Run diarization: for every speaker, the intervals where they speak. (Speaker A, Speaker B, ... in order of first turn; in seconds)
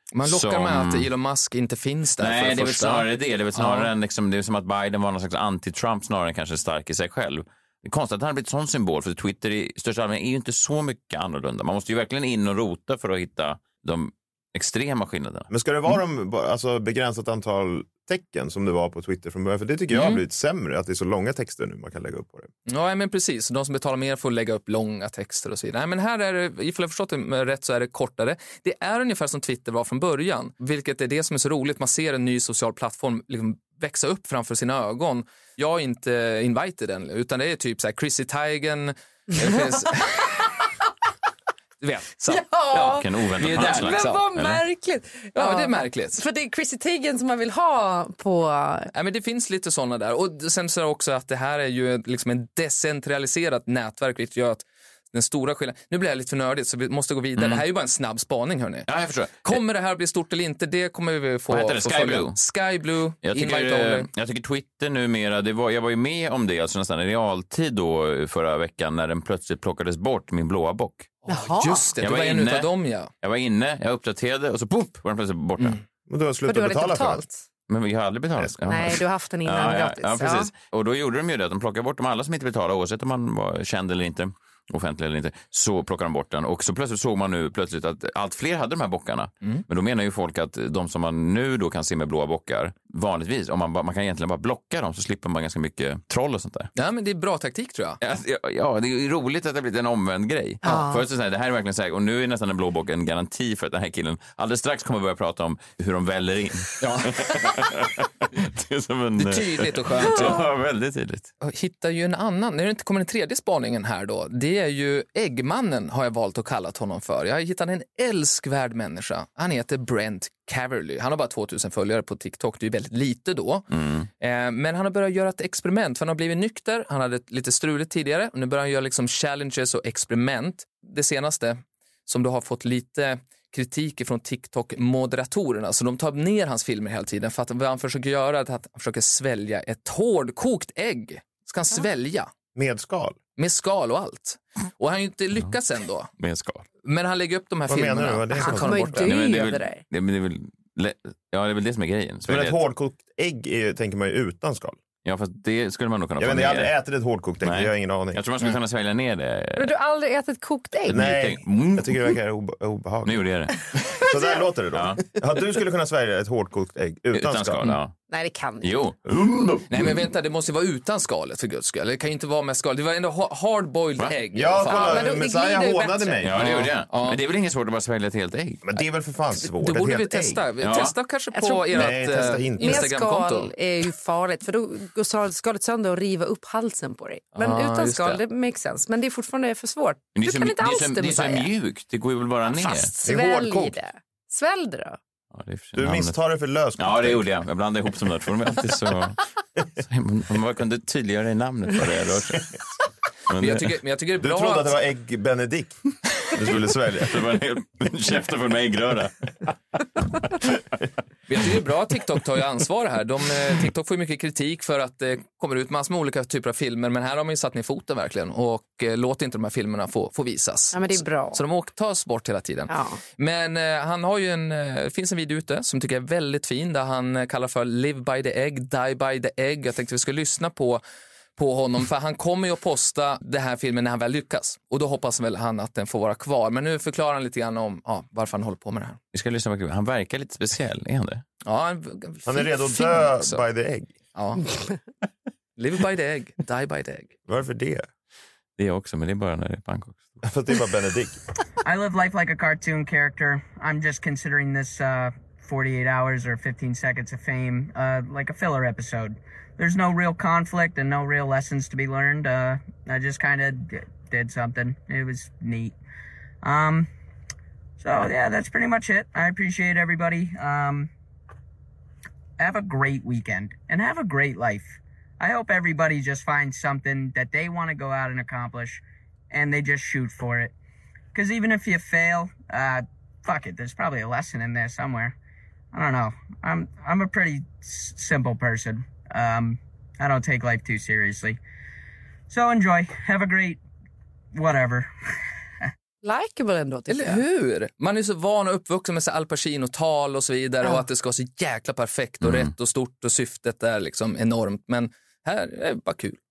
Speaker A: 0.1-3.9, 19.9-20.2, 22.6-40.5, 41.8-44.3, 45.3-46.2, 48.9-58.9, 59.4-64.1, 71.2-73.1, 96.8-98.0, 106.8-107.5, 109.2-110.4, 111.4-123.7, 124.2-142.3, 143.4-146.1, 146.8-149.1, 169.7-175.1, 176.4-177.2, 179.4-183.5, 187.3-188.2, 203.4-204.8, 211.3-230.8, 231.4-239.0, 241.4-243.4, 244.1-244.4, 245.6-247.2, 296.9-306.2
Speaker B: 0.2-1.1, 2.2-15.5, 42.8-44.6, 57.4-57.6, 58.9-59.6, 61.5-62.4, 63.2-71.1, 72.0-72.7, 73.2-75.8, 77.7-96.7, 98.0-111.3, 123.7-124.1, 146.2-146.7, 149.0-152.6, 155.0-156.7, 157.4-159.7, 160.9-162.1, 163.0-163.5, 164.7-165.0, 167.1-167.9, 168.6-170.1, 176.2-178.6, 180.6-180.9, 190.1-192.9, 195.3-196.2, 196.8-199.2, 199.8-202.5, 203.3-203.7, 207.0-209.3, 239.1-241.2, 248.6-250.2, 302.2-302.5
Speaker C: 15.5-22.5, 76.1-77.2, 78.4-78.8, 142.5-143.2, 147.7-149.0, 152.3-154.8, 156.2-158.2, 160.9-163.2, 163.9-167.7, 174.3-176.7, 178.6-180.4, 181.7-182.9, 193.0-193.8, 195.8-197.2, 204.2-205.8, 206.3-207.2, 242.2-243.9, 247.3-247.9, 250.2-251.2
Speaker D: 42.3-48.9, 71.3-71.9, 76.5-77.4, 78.6-80.5, 100.6-101.0, 110.1-110.4, 148.4-149.8, 159.6-161.0, 168.1-168.7, 174.7-176.2, 181.3-191.5, 192.5-195.0, 220.7-221.4, 222.7-223.0, 296.0-297.2
Speaker E: 251.6-265.8, 266.4-266.9, 267.8-270.9, 272.4-280.5, 281.1-285.1, 285.7-291.4, 292.3-293.6, 294.3-294.9